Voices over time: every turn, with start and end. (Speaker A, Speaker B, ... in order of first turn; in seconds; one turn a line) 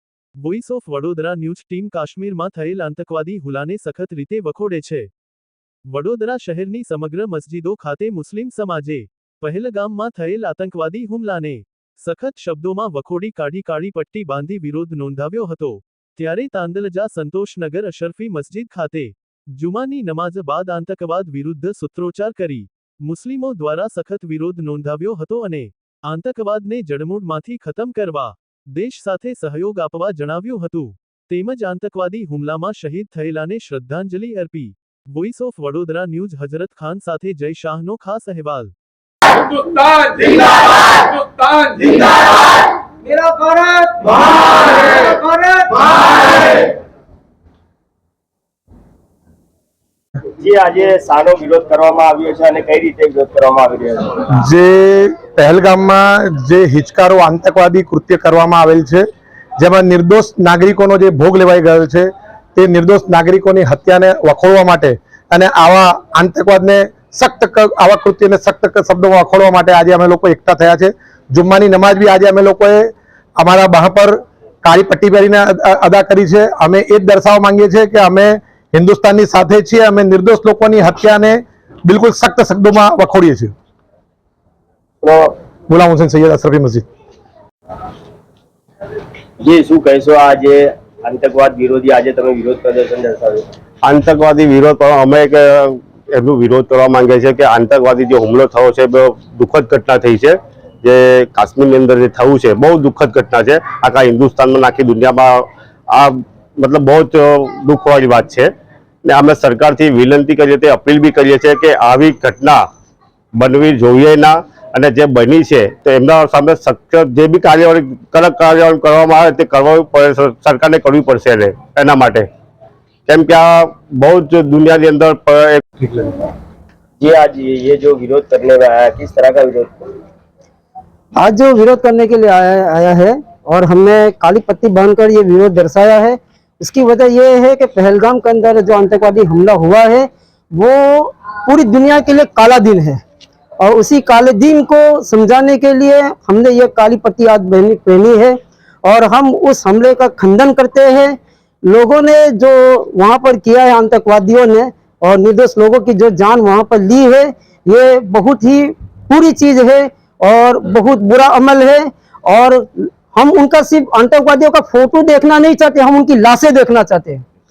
Speaker A: 0.4-5.1
Speaker A: 5.9-38.7
Speaker B: 43.2-44.1
Speaker B: 44.8-45.8
Speaker C: 50.4-54.2
Speaker D: 54.4-59.0
Speaker D: 59.6-83.5
Speaker C: 85.0-85.3
Speaker D: 85.7-86.8
Speaker C: 89.4-93.5
Speaker E: 89.8-90.5
Speaker E: 92.4-93.0
Speaker E: 93.8-105.3
Speaker E: 106.0-108.5
Speaker E: 109.1-112.5
Speaker E: 113.4-122.2
Speaker E: 123.1-126.3
Speaker C: 127.0-129.9
Speaker B: 131.2-143.0
Speaker B: 143.6-167.2